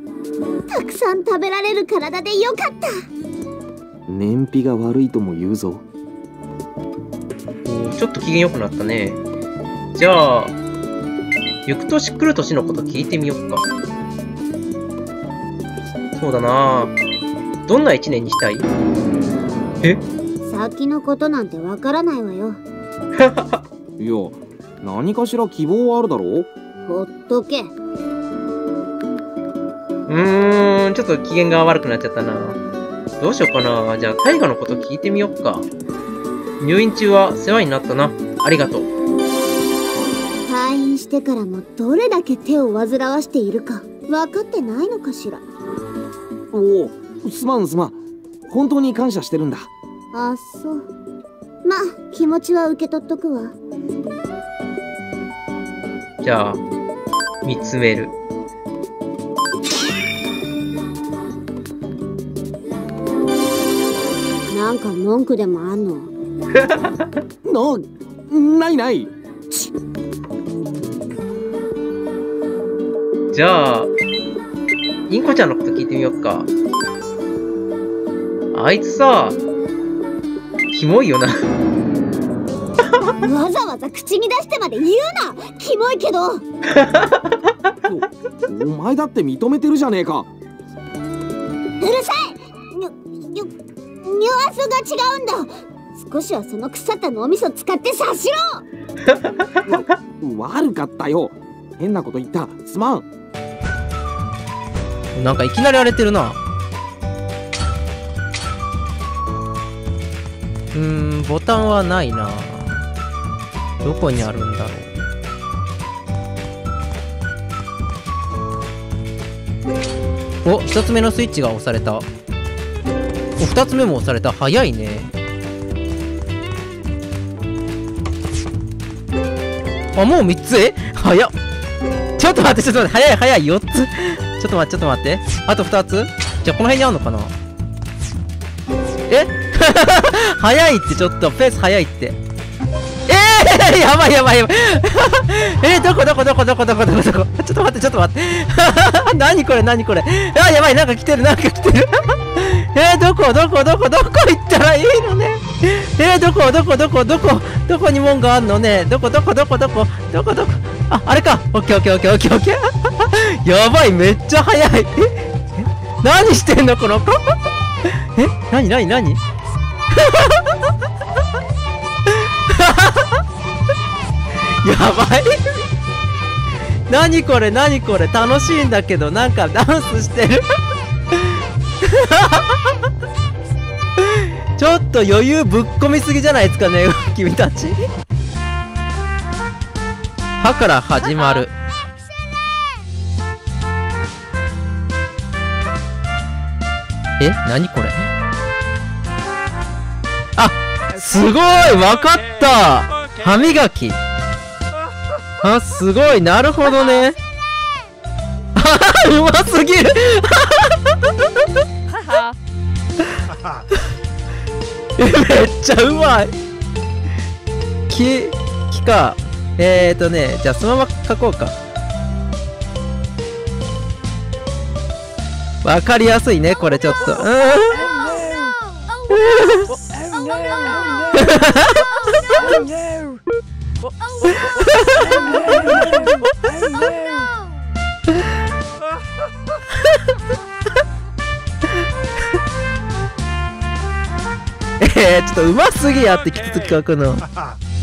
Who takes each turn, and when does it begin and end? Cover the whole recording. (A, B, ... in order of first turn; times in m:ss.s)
0:00.7-0:02.9 A
0:04.1-0:05.8 B
0:07.6-0:09.2 C
0:10.0-0:10.6 C
0:11.7-0:13.6 C
0:16.2-0:17.0 C
0:17.7-0:18.7 C
0:20.4-0:22.6 A
0:23.2-0:23.6 C
0:24.0-0:26.5 B
0:26.9-0:27.7 A
0:30.1-0:32.6 C
0:33.2-0:35.7 C
0:36.6-0:38.9 C
0:40.5-0:45.4 A
0:46.5-0:49.7 B
0:50.1-0:50.9 A
0:51.6-0:53.6 A
0:56.2-0:56.6 C
0:57.4-0:58.1 C
1:04.5-1:06.1 A
1:07.4-1:09.7 B
1:13.3-1:13.9 C
1:15.1-1:16.5 C
1:18.5-1:19.4 C
1:20.7-1:21.3 C
1:23.2-1:26.4 A
1:27.8-1:30.3 B
1:31.8-1:33.5 A
1:34.0-1:38.6 A
1:39.7-1:43.1 B
1:45.2-1:46.4 C
1:50.7-1:52.8 C
1:53.8-1:54.9 C
2:00.4-2:02.1 C
2:03.4-2:05.1 C
2:10.0-2:11.3 C
2:12.2-2:17.3 C
2:19.1-2:22.2 C
2:23.1-2:47.3 C
2:48.2-2:49.2 C
2:52.5-2:53.0 C
2:54.6-2:55.4 C
2:56.9-3:00.4 C
3:02.1-3:02.5 C
3:04.6-3:07.9 C
3:10.4-3:11.5 C
3:17.2-3:18.0 C
3:20.4-3:24.0 C
3:25.4-3:27.2 C
3:28.6-3:30.8 C
3:35.0-3:36.3 C
3:37.9-3:41.6 C
3:45.6-3:48.0 C
3:49.3-3:49.8 C
3:51.1-3:51.8 C
3:54.4-3:55.9 C
4:04.8-4:07.2 C